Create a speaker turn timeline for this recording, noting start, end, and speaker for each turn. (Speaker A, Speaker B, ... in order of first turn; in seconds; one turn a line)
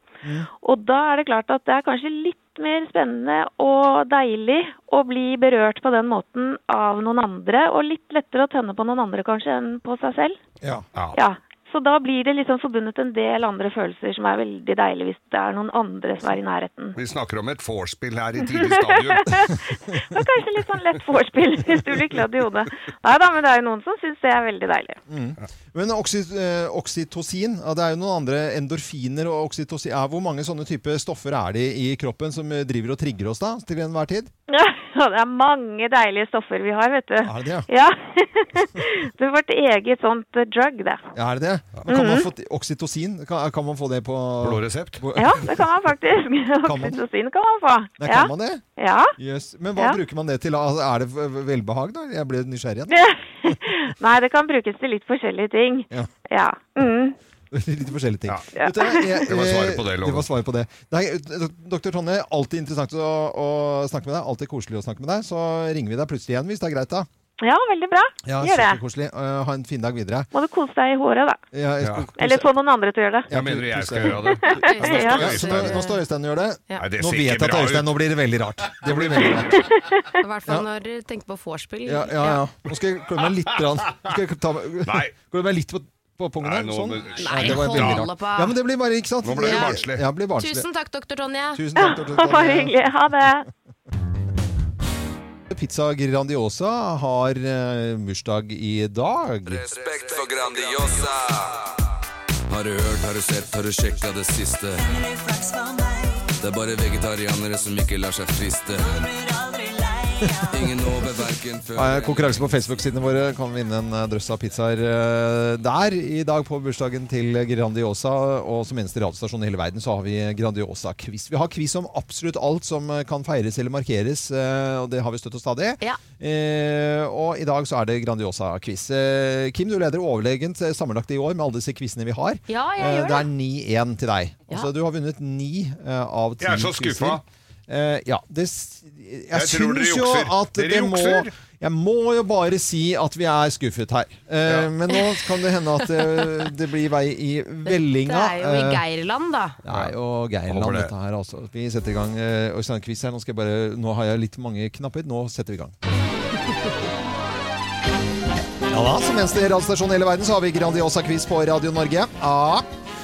Speaker A: 0.2-0.5
Speaker B: 0.5-10.4
Speaker B: 11.1-17.0
Speaker C: 16.9-19.5
Speaker B: 18.4-25.0
Speaker A: 25.1-34.3
Speaker B: 34.5-41.1
Speaker A: 37.2-37.6
Speaker A: 41.1-45.7
Speaker B: 41.9-42.3
Speaker C: 44.4-45.0
Speaker B: 45.1-49.1
Speaker A: 46.6-47.0
Speaker A: 48.0-48.6
Speaker A: 49.2-53.6
Speaker B: 52.9-57.1
Speaker A: 57.5-67.1
Speaker B: 58.5-59.2
Speaker C: 59.2-60.3
Speaker B: 67.4-68.8
Speaker A: 68.2-70.3
Speaker B: 70.3-71.4
Speaker A: 71.5-72.5
Speaker C: 71.8-72.0
Speaker B: 72.2-73.3
Speaker A: 73.3-79.7
Speaker C: 73.3-75.8
Speaker B: 74.3-75.2
Speaker D: 74.5-76.0
Speaker C: 76.8-77.9
Speaker C: 78.8-79.6
Speaker B: 79.8-80.1
Speaker D: 80.1-82.4
Speaker A: 81.8-90.7
Speaker C: 84.8-85.1
Speaker C: 86.4-88.1
Speaker D: 87.2-88.5
Speaker C: 89.2-90.0
Speaker D: 89.4-89.8
Speaker D: 90.4-91.6
Speaker A: 91.5-92.8
Speaker B: 91.8-93.5
Speaker A: 95.5-99.7
Speaker E: 99.5-101.7
Speaker E: 102.5-105.1
Speaker E: 106.4-109.2
Speaker A: 110.3-110.8
Speaker E: 110.5-112.7
Speaker A: 111.7-148.8
Speaker D: 132.5-133.3
Speaker C: 136.4-137.2
Speaker C: 139.3-141.3
Speaker D: 147.7-149.6
Speaker A: 149.6-155.7
Speaker C: 150.5-150.9
Speaker A: 158.7-162.7